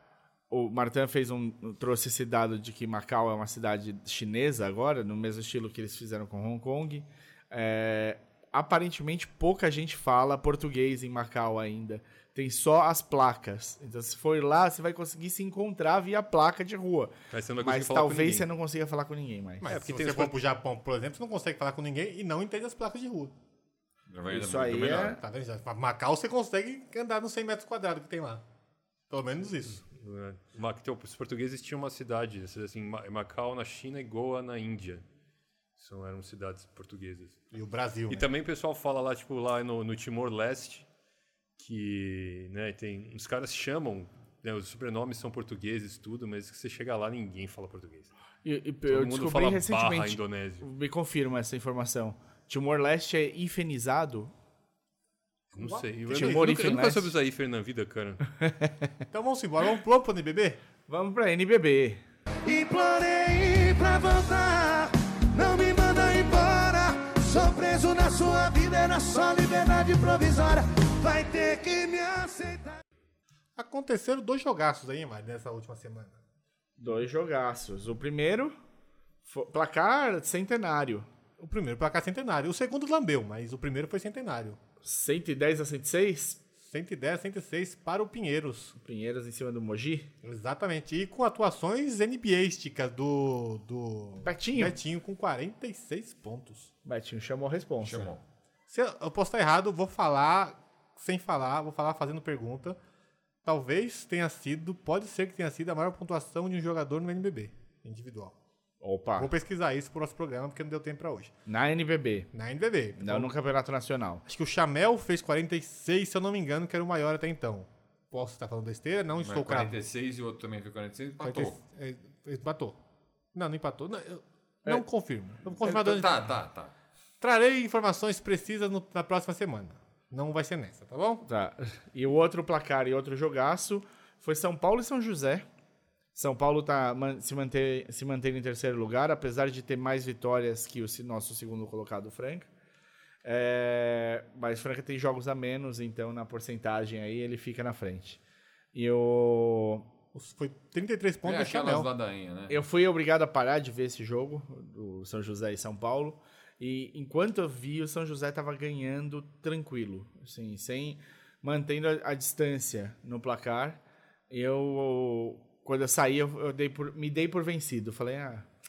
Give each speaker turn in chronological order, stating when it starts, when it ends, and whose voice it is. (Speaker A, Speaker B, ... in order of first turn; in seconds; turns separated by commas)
Speaker A: 0.5-19.6, Speaker B: 17.3-18.4, Speaker C: 19.6-23.3, Speaker B: 19.6-20.3, Speaker D: 24.1-25.2, Speaker A: 24.3-25.2, Speaker C: 25.1-28.4, Speaker C: 29.1-29.8, Speaker B: 29.9-35.0, Speaker B: 35.8-37.4, Speaker C: 37.5-38.3, Speaker B: 38.1-40.9, Speaker B: 41.6-48.1, Speaker A: 48.4-54.3, Speaker B: 48.9-50.6, Speaker C: 55.5-56.7, Speaker B: 55.5-58.2, Speaker A: 56.1-57.1, Speaker A: 58.4-58.9, Speaker C: 59.1-60.6, Speaker A: 60.9-62.0, Speaker E: 62.4-72.8, Speaker C: 73.5-76.2, Speaker A: 76.8-78.5, Speaker A: 79.2-81.1, Speaker C: 81.4-84.6, Speaker A: 84.8-86.4, Speaker C: 86.6-88.8, Speaker A: 88.8-90.1, Speaker C: 90.2-96.7, Speaker A: 94.2-94.8, Speaker A: 96.8-98.1, Speaker D: 97.8-98.2, Speaker C: 98.7-102.8, Speaker C: 103.4-108.3, Speaker A: 108.8-109.3, Speaker C: 109.2-111.3, Speaker A: 111.5-112.3, Speaker C: 112.3-113.3, Speaker A: 113.0-114.2, Speaker C: 114.2-119.8, Speaker D: 119.2-121.6, Speaker C: 121.2-122.8, Speaker C: 123.3-126.3, Speaker D: 125.5-126.7, Speaker C: 127.2-131.2, Speaker A: 131.2-135.5, Speaker A: 136.1-142.5, Speaker A: 143.2-148.2, Speaker A: 148.7-149.9, Speaker C: 150.1-151.9, Speaker D: 151.2-152.6, Speaker A: 152.5-168.5